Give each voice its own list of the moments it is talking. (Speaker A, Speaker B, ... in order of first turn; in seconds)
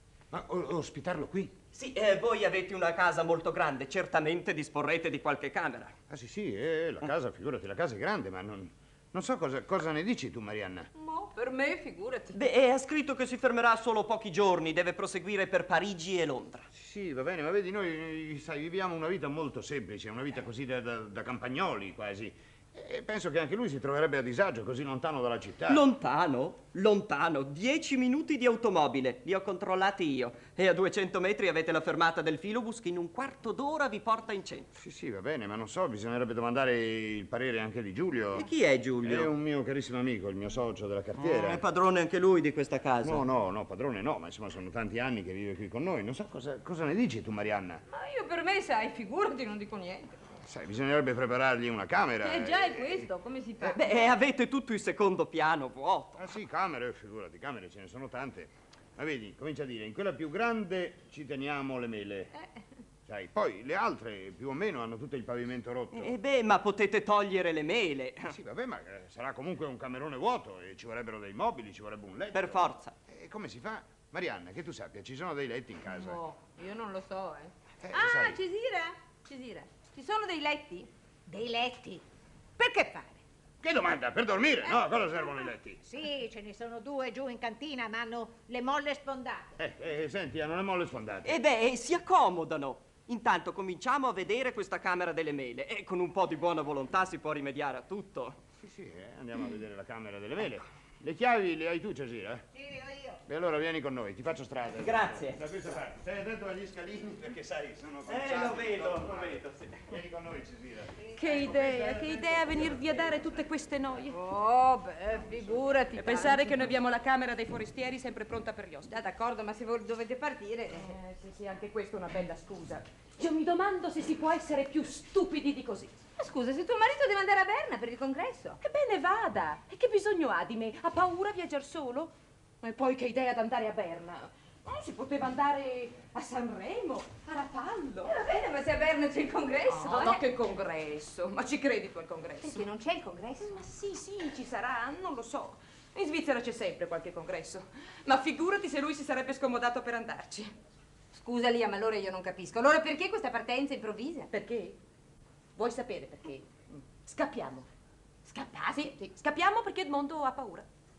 Speaker A: 0.3-1.5, 6.1-10.9, 16.7-25.8, 34.8-38.5, 39.0-41.6, 43.0-47.8, 50.4-53.0, 56.2-62.3, 63.0-66.1, 68.3-76.2, 77.8-78.4, 83.6-85.9, 89.6-91.3, 98.6-102.5, 103.2-113.0
Speaker B: 1.7-6.0, 12.3-16.7, 25.7-34.7, 38.3-39.3, 41.2-43.2, 53.6-56.3, 65.9-68.3, 72.3-73.0, 91.2-98.4, 104.8-105.4, 108.0-109.9
Speaker C: 10.9-12.4, 47.9-50.2, 52.2-53.8, 75.9-82.0, 82.6-83.2, 114.1-116.7, 118.9-121.0, 126.2-128.6, 138.0-140.2, 142.4-143.6, 151.1-154.3, 158.2-158.9
Speaker D: 85.9-89.5
Speaker E: 111.1-114.2, 115.9-119.0, 120.7-126.0, 128.6-138.1, 139.7-142.7, 143.4-150.5, 154.3-154.8, 155.6-157.7, 158.8-160.7